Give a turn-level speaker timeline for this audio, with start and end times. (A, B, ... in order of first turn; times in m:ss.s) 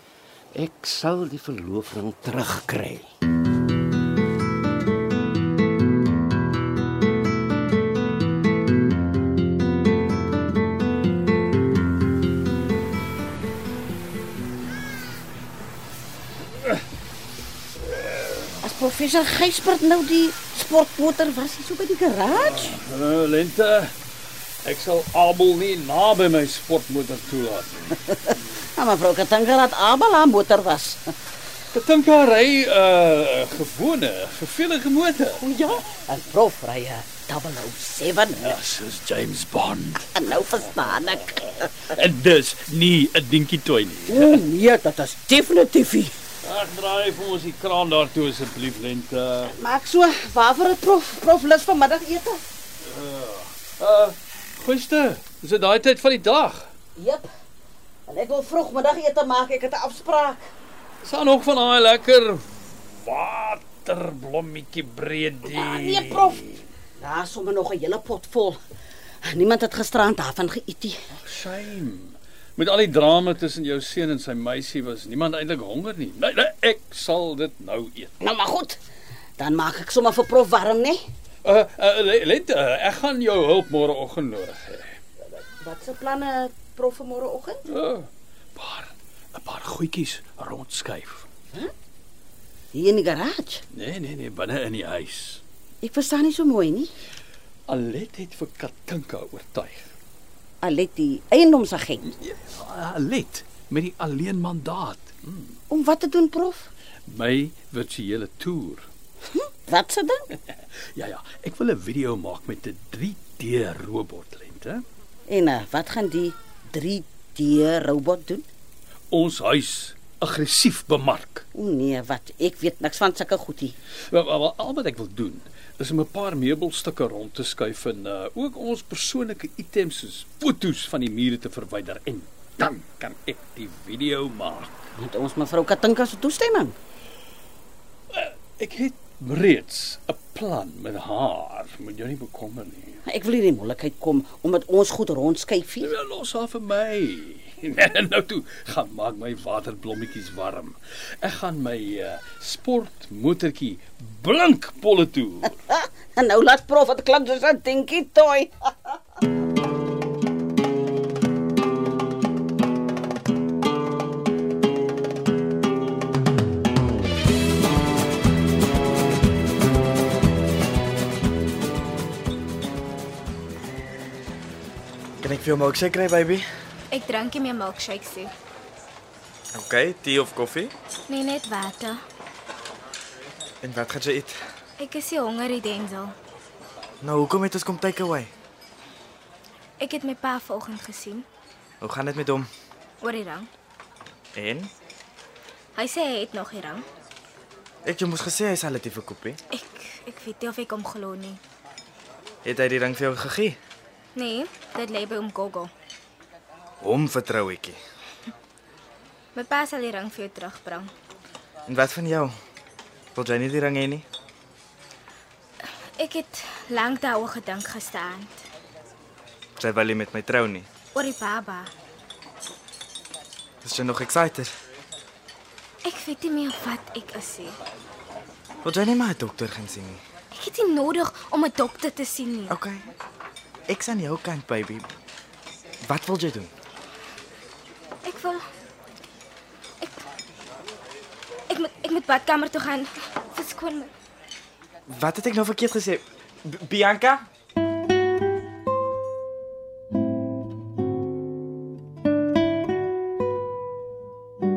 0:00.5-0:03.0 A
0:18.0-0:18.5 B
0:18.6-0:22.8 C
0:22.3-0:23.9 B
0:24.6-0:28.0 B
0:28.1-0:31.1 C
0:31.7-0:35.4 B
0:35.4-0:38.6 C
0:38.4-0:40.1 B
0:40.1-0:41.7 C
0:40.7-0:44.4 B
0:44.1-0:46.1 C
0:46.4-0:49.5 B
0:49.4-0:52.4 C
0:52.8-0:56.7 B
0:57.0-0:57.3 C
0:58.1-1:00.5 C
1:01.0-1:06.6 B
1:05.4-1:08.6 C
1:09.2-1:11.0 C
1:11.1-1:18.1 B
1:18.2-1:18.8 C
1:19.4-1:21.0 C
1:21.4-1:24.9 B
1:25.3-1:27.6 C
1:27.7-1:31.2 B
1:32.7-1:33.6 C
1:33.7-1:35.4 B
1:35.8-1:36.9 C
1:37.7-1:39.9 B
1:40.6-1:42.0 C
1:42.1-1:45.6 B
1:45.7-1:46.7 C
1:47.0-1:48.9 B
1:49.3-1:50.2 C
1:50.9-1:54.8 B
1:55.3-1:58.4 C
1:59.1-2:01.5 B
2:01.5-2:03.7 C
2:04.1-2:14.9 B
2:15.0-2:16.7 C
2:18.1-2:23.0 B
2:23.1-2:25.9 C
2:25.8-2:35.6 B
2:35.7-2:39.0 C
2:55.2-2:56.4 D
2:56.9-2:58.3 E
2:59.5-3:00.7 D
3:01.1-3:02.0 E
3:03.6-3:04.3 D
3:04.8-3:06.2 E
3:07.0-3:08.3 D
3:09.8-3:11.2 E
3:11.8-3:12.5 D
3:13.0-3:13.5 E
3:14.3-3:14.7 D
3:15.7-3:16.8 E
3:17.8-3:19.4 D
3:19.5-3:21.4 E
3:22.4-3:23.6 D
3:24.1-3:25.7 E
3:26.8-3:27.8 D
3:29.3-3:30.9 E
3:31.7-3:32.3 D
3:33.1-3:34.0 D
3:35.9-3:38.4 E
3:39.6-3:40.7 D
3:40.9-3:41.7 E
3:43.6-3:44.5 D
3:45.8-3:47.6 E
3:48.6-3:50.0 D
3:50.3-3:52.6 E
3:52.5-3:52.9 D
3:53.7-3:54.8 D
3:55.9-3:56.5 D
3:58.0-3:58.4 E
4:01.5-4:03.9 E
4:04.9-4:07.2 D